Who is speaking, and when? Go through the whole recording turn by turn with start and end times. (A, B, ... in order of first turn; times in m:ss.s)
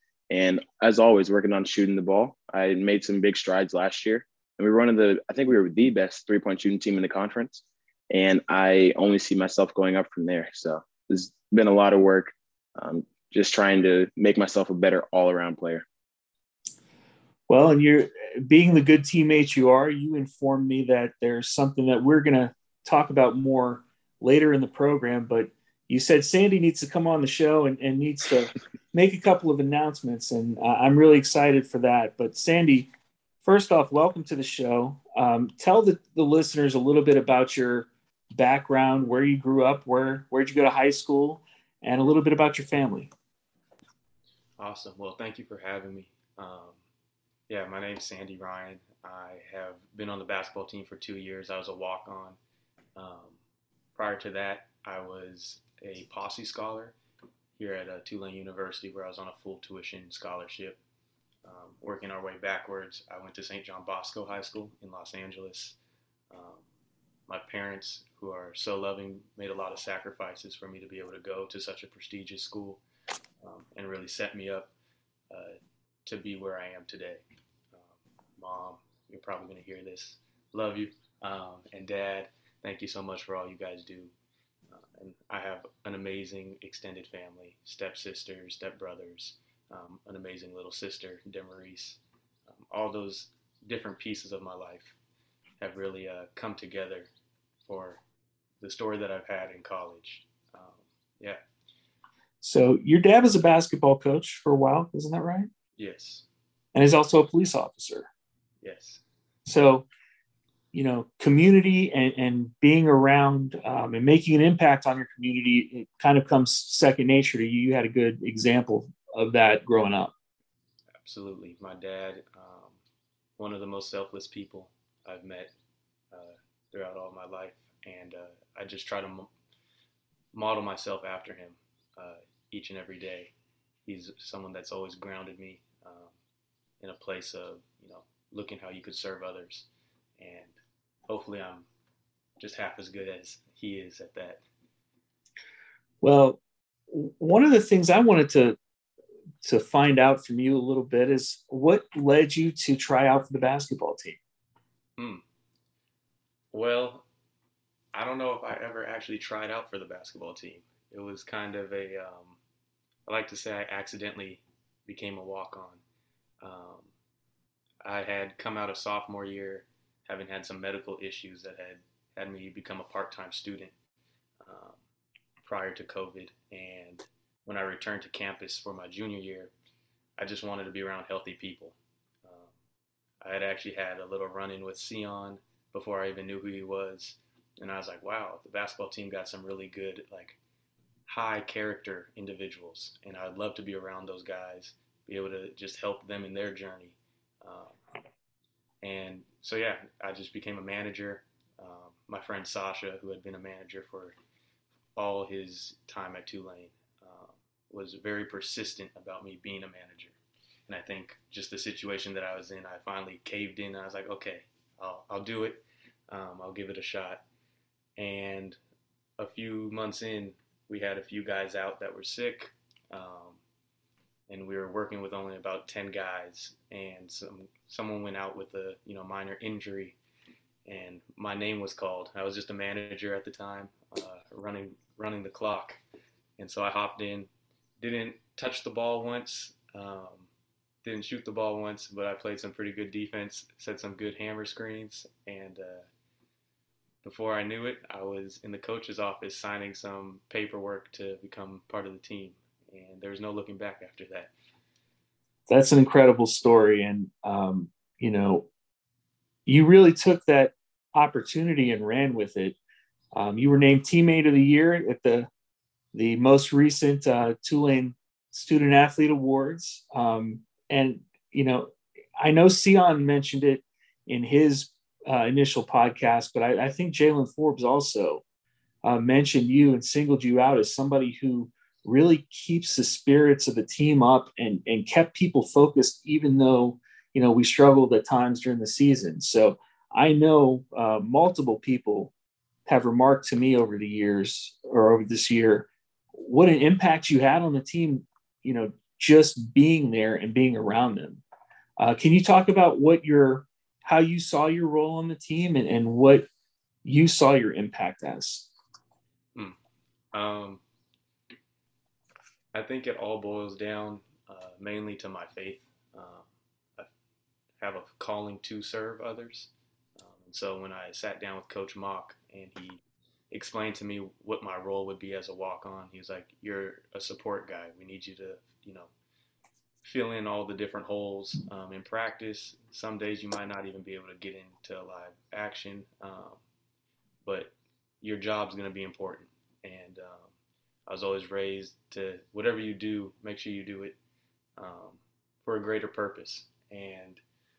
0:00.3-0:15.8 A
0:17.5-0:32.9 B
0:33.4-0:43.1 B
0:44.6-0:46.8 C
0:47.5-0:52.4 C
0:53.0-0:53.4 C
0:54.0-0:57.0 C
0:57.6-1:00.8 C
1:01.4-1:05.8 C
1:06.3-1:06.6 C
1:07.3-1:12.8 C
1:13.4-1:14.7 C
1:15.3-1:17.8 C
1:18.4-1:24.1 C
1:24.7-1:32.0 C
1:32.5-1:35.0 C
1:35.6-1:37.1 C
1:37.7-1:38.0 C
1:38.6-1:41.4 C
1:42.4-1:45.5 B
1:45.8-1:46.3 C
1:46.7-1:48.1 B
1:48.6-1:49.0 C
1:49.5-1:49.9 B
1:50.7-2:00.1 B
2:01.0-2:02.8 C
2:03.4-2:05.5 C
2:06.1-2:09.3 C
2:10.3-2:13.3 C
2:13.9-2:16.1 C
2:16.8-2:19.7 C
2:20.2-2:20.5 C
2:21.1-2:21.7 C
2:22.4-2:24.4 C
2:26.0-2:28.6 B
2:29.4-2:34.2 B
2:36.5-2:37.1 C
2:37.9-2:42.4 C
2:43.1-2:45.8 C
2:46.4-2:46.9 C
2:47.8-2:53.7 C
2:54.4-2:54.8 C
2:55.4-2:59.5 C
3:00.2-3:02.5 C
3:03.2-3:10.4 C
3:11.1-3:17.8 C
3:18.8-3:24.2 C
3:25.0-3:30.2 C
3:30.7-3:37.2 C
3:38.0-3:38.6 C
3:39.2-3:43.4 C
3:44.3-3:50.0 C
3:50.6-3:55.8 C
3:56.4-4:00.3 C
4:00.8-4:05.9 C
4:07.0-4:14.3 C
4:15.5-4:18.5 B
4:19.5-4:22.6 B
4:23.1-4:25.3 B
4:25.9-4:38.2 B
4:38.8-4:52.1 B
4:52.7-5:01.2 B
5:01.8-5:06.3 B
5:06.8-5:08.5 B
5:10.1-5:10.6 C
5:12.5-5:16.9 C
5:17.6-5:22.8 C
5:23.3-5:28.9 C
5:29.8-5:36.4 C
5:37.2-5:40.3 C
5:40.9-5:44.0 C
5:44.6-5:47.2 C